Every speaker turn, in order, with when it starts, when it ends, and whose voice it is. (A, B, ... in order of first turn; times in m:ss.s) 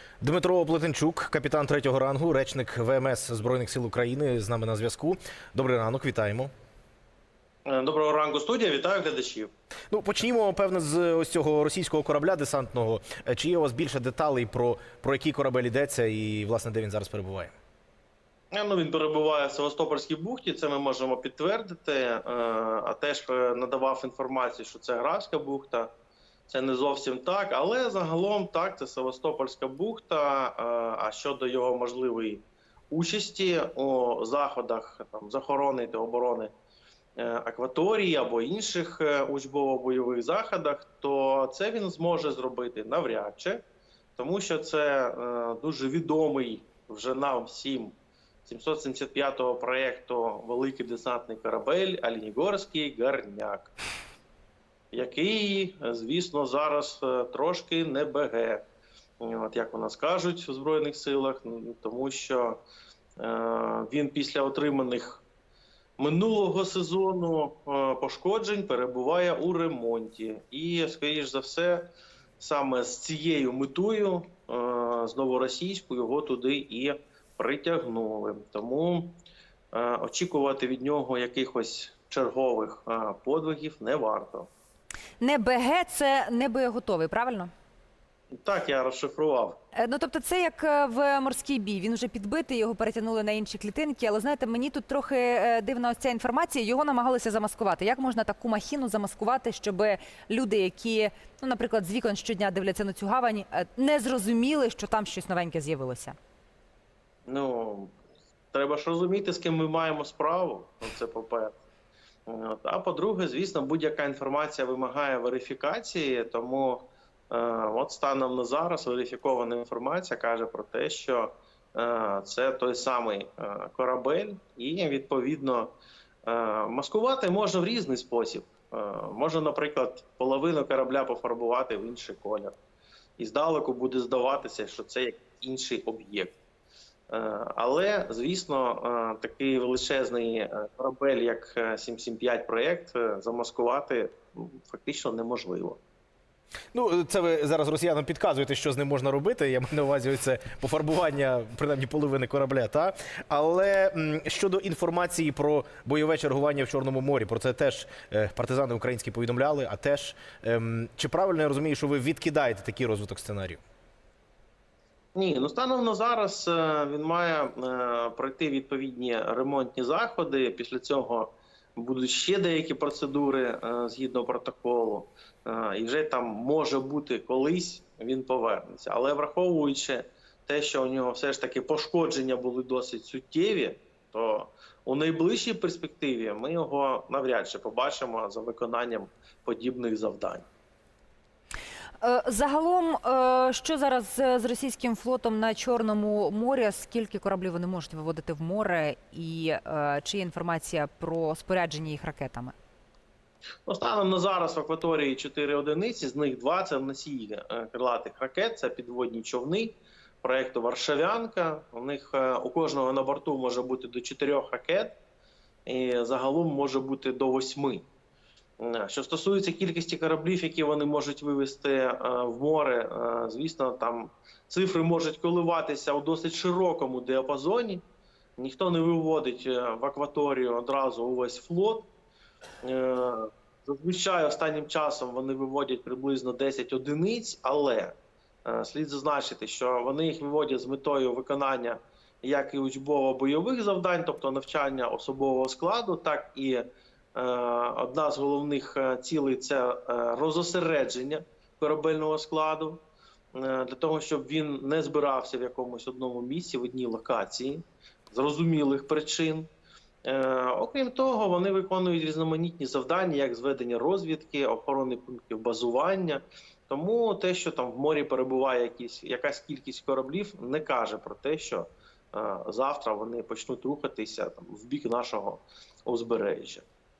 0:00.2-0:06.5 A
0:07.6-0:09.5 B
0:09.9-0:17.5 A
0:18.5-0:25.9 B
0:26.5-0:36.5 B
0:37.2-0:43.6 B
0:44.2-0:53.7 B
0:54.9-0:58.6 B
0:59.2-1:02.6 B
1:03.2-1:05.2 B
1:06.0-1:19.2 B
1:19.7-1:24.5 B
1:25.2-1:27.5 C
1:28.3-1:29.6 B
1:29.7-1:46.2 C
1:47.2-1:47.9 B
1:48.5-1:51.6 B
1:52.3-2:12.5 B
2:13.2-2:16.4 B
2:17.1-2:25.8 B
2:26.7-2:43.6 A
2:45.1-3:10.4 B
3:12.0-3:22.5 C
3:23.7-3:35.0 B
3:35.6-3:37.8 B
3:38.6-3:47.8 B
3:48.4-3:51.9 B
3:52.6-4:12.8 B
4:13.3-4:19.5 B
4:20.0-4:36.6 B